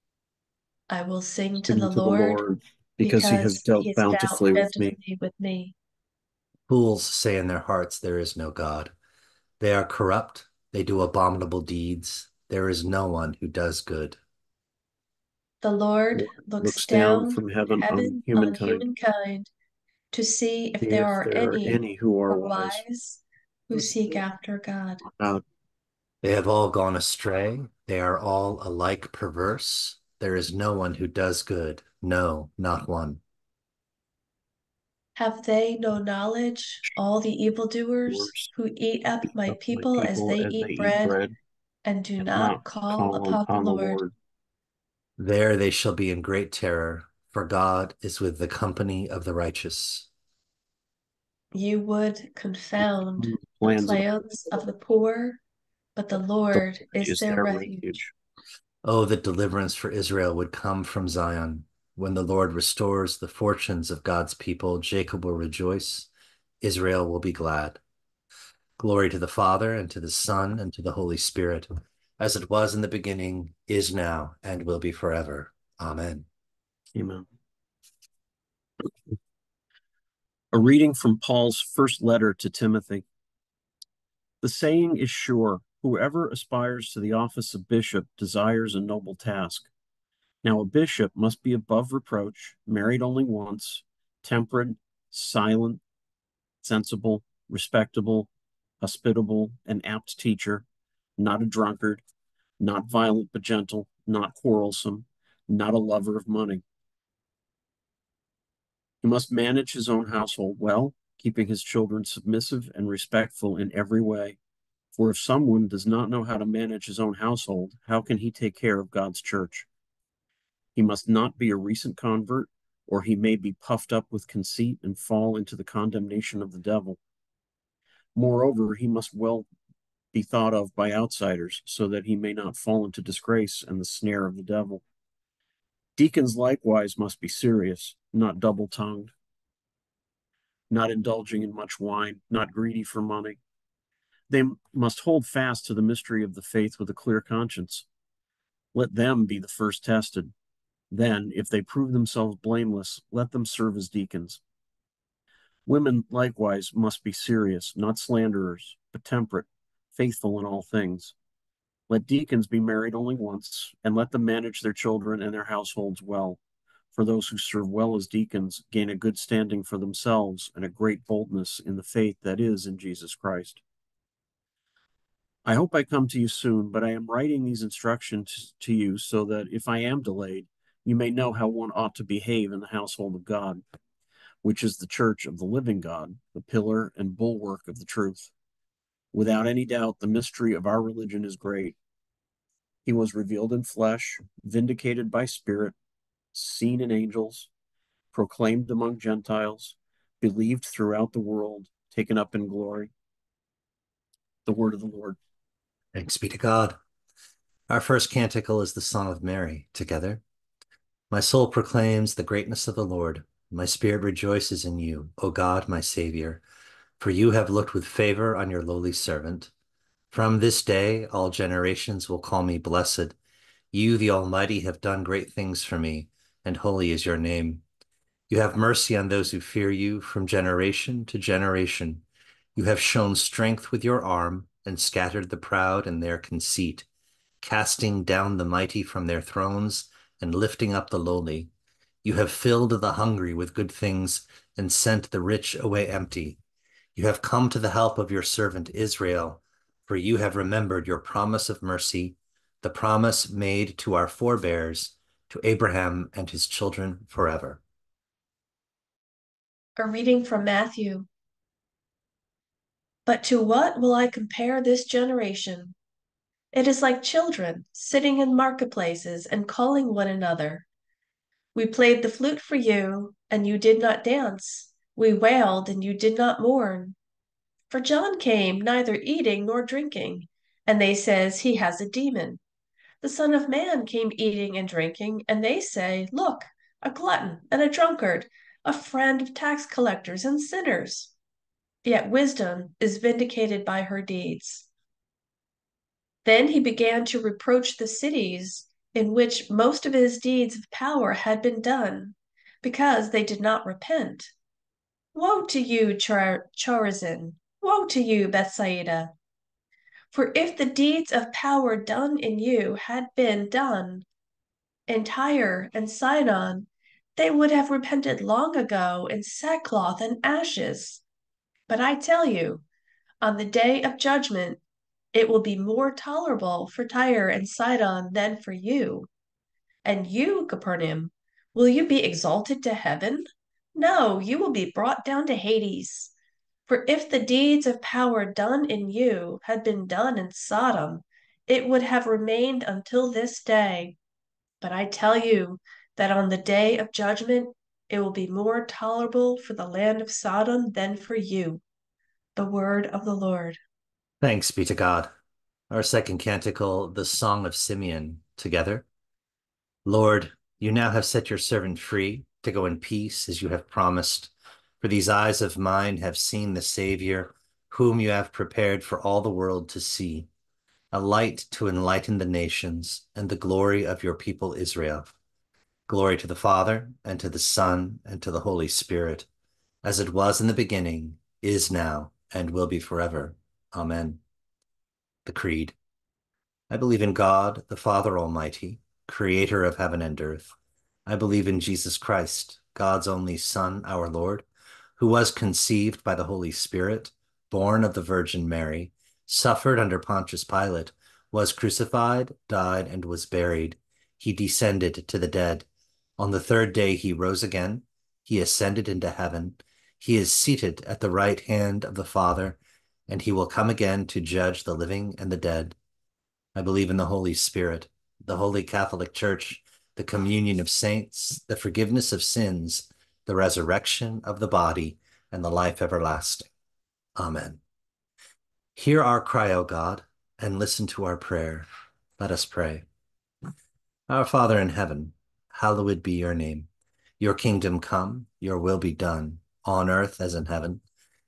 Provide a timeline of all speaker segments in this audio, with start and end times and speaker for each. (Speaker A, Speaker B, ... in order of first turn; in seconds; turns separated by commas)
Speaker A: 0.9-2.4, Speaker B: 1.7-4.9, Speaker A: 3.0-5.7, Speaker C: 6.7-8.9, Speaker C: 9.6-14.2, Speaker A: 15.6-19.5, Speaker B: 16.1-18.9, Speaker A: 20.1-21.8, Speaker B: 20.8-22.8, Speaker A: 22.3-25.0, Speaker B: 23.7-24.2, Speaker B: 25.0-25.4, Speaker C: 26.2-33.2, Speaker A: 35.1-41.2, Speaker B: 38.1-38.5, Speaker B: 39.3-41.4, Speaker A: 41.8-44.0, Speaker B: 42.2-44.1, Speaker C: 45.2-50.1, Speaker A: 51.5-55.4, Speaker B: 52.8-54.7, Speaker A: 56.0-58.0, Speaker B: 56.5-58.1, Speaker C: 58.8-66.1, Speaker C: 66.6-67.8, Speaker C: 68.8-76.2, Speaker B: 76.9-77.2, Speaker B: 80.5-83.1, Speaker B: 84.4-89.7, Speaker B: 90.4-95.8, Speaker B: 96.6-98.3, Speaker B: 98.8-100.7, Speaker B: 101.2-102.0, Speaker B: 102.6-106.6, Speaker B: 109.0-114.4, Speaker B: 114.9-119.7, Speaker B: 120.7-127.0, Speaker B: 128.1-129.5, Speaker B: 130.1-134.8, Speaker B: 136.0-139.1, Speaker B: 140.7-143.4, Speaker B: 144.3-147.9, Speaker B: 148.7-150.3, Speaker B: 150.9-154.4, Speaker B: 155.7-161.1, Speaker B: 161.9-166.4, Speaker B: 166.9-173.6, Speaker B: 175.4-183.6, Speaker B: 184.4-188.3, Speaker B: 189.1-191.8, Speaker B: 192.8-195.8, Speaker B: 196.3-197.5, Speaker B: 198.1-202.9, Speaker B: 204.4-205.2, Speaker C: 205.9-206.8, Speaker C: 207.7-210.2, Speaker C: 211.1-216.4, Speaker C: 217.0-219.5, Speaker C: 220.1-223.2, Speaker C: 223.7-227.6, Speaker C: 228.3-232.0, Speaker C: 232.6-236.9, Speaker C: 237.4-241.5, Speaker C: 242.0-246.4, Speaker C: 246.9-257.6, Speaker A: 259.8-261.1, Speaker A: 263.1-265.7, Speaker A: 266.5-270.6, Speaker A: 271.5-276.9, Speaker A: 277.7-282.4, Speaker A: 283.0-291.1, Speaker A: 291.8-294.6, Speaker A: 296.2-304.3, Speaker A: 305.1-309.1, Speaker A: 310.1-314.1, Speaker A: 314.9-321.0, Speaker A: 321.7-322.6, Speaker A: 323.2-324.6, Speaker A: 325.1-329.1, Speaker A: 329.8-336.1, Speaker A: 336.7-343.9, Speaker A: 344.6-351.6, Speaker A: 352.4-353.6, Speaker C: 354.2-355.1, Speaker C: 355.7-358.9, Speaker C: 359.8-370.3, Speaker C: 370.9-375.1, Speaker C: 375.9-379.3, Speaker C: 379.8-384.2, Speaker C: 385.2-385.8, Speaker C: 386.7-390.5, Speaker C: 391.1-394.4, Speaker C: 395.0-405.6, Speaker C: 406.2-415.8, Speaker C: 416.5-426.5, Speaker C: 427.2-427.6, Speaker C: 428.7-431.7, Speaker C: 432.2-432.8, Speaker C: 434.1-436.7, Speaker C: 437.2-440.8